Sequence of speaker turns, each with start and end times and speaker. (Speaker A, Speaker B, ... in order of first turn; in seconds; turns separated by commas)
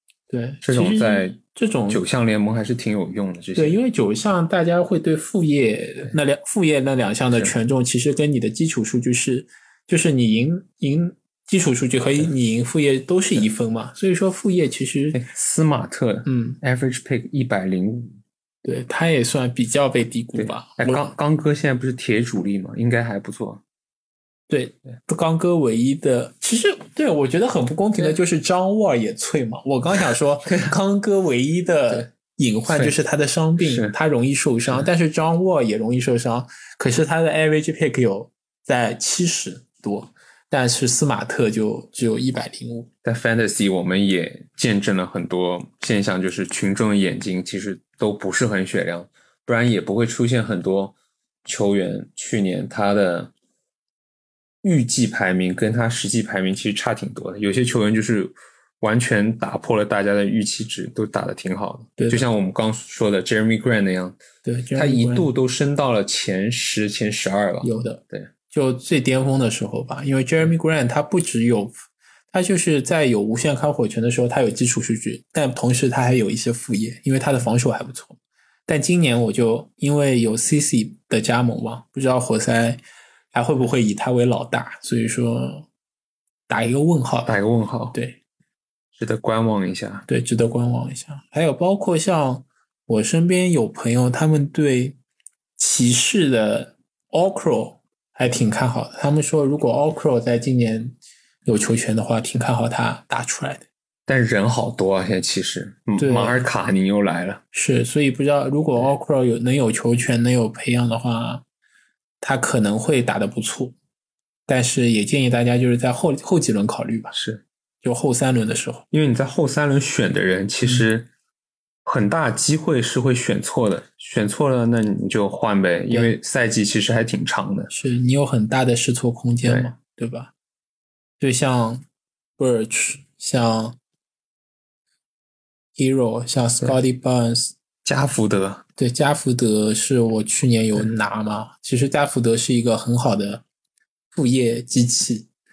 Speaker A: 0.3-2.0, Speaker B: 0.6-1.4, Speaker B: 1.9-3.8, Speaker A: 3.5-15.2, Speaker B: 15.1-18.2, Speaker A: 16.2-16.6, Speaker A: 18.6-21.1, Speaker B: 20.4-23.6, Speaker A: 24.5-42.9, Speaker B: 32.7-33.0, Speaker B: 33.6-33.9, Speaker B: 43.0-50.9, Speaker B: 51.4-53.3, Speaker B: 54.6-64.2, Speaker A: 62.0-62.2, Speaker A: 64.4-65.3, Speaker B: 64.7-68.3, Speaker A: 67.6-71.7, Speaker A: 72.3-82.8, Speaker A: 83.3-85.7, Speaker A: 86.5-87.3, Speaker B: 87.2-88.0, Speaker B: 89.0-90.0, Speaker A: 90.1-95.0, Speaker A: 95.6-103.7, Speaker B: 104.1-107.4, Speaker A: 106.0-106.4, Speaker A: 107.5-111.4, Speaker A: 112.2-113.7, Speaker A: 114.5-117.1, Speaker B: 117.1-117.4, Speaker A: 117.8-118.8, Speaker B: 118.9-121.1, Speaker B: 121.8-127.7, Speaker A: 125.9-126.1, Speaker A: 127.7-130.3, Speaker B: 129.4-129.7, Speaker A: 131.2-131.8, Speaker A: 132.4-133.8, Speaker A: 135.8-137.5, Speaker B: 137.8-138.6, Speaker A: 138.8-143.4, Speaker A: 144.1-145.3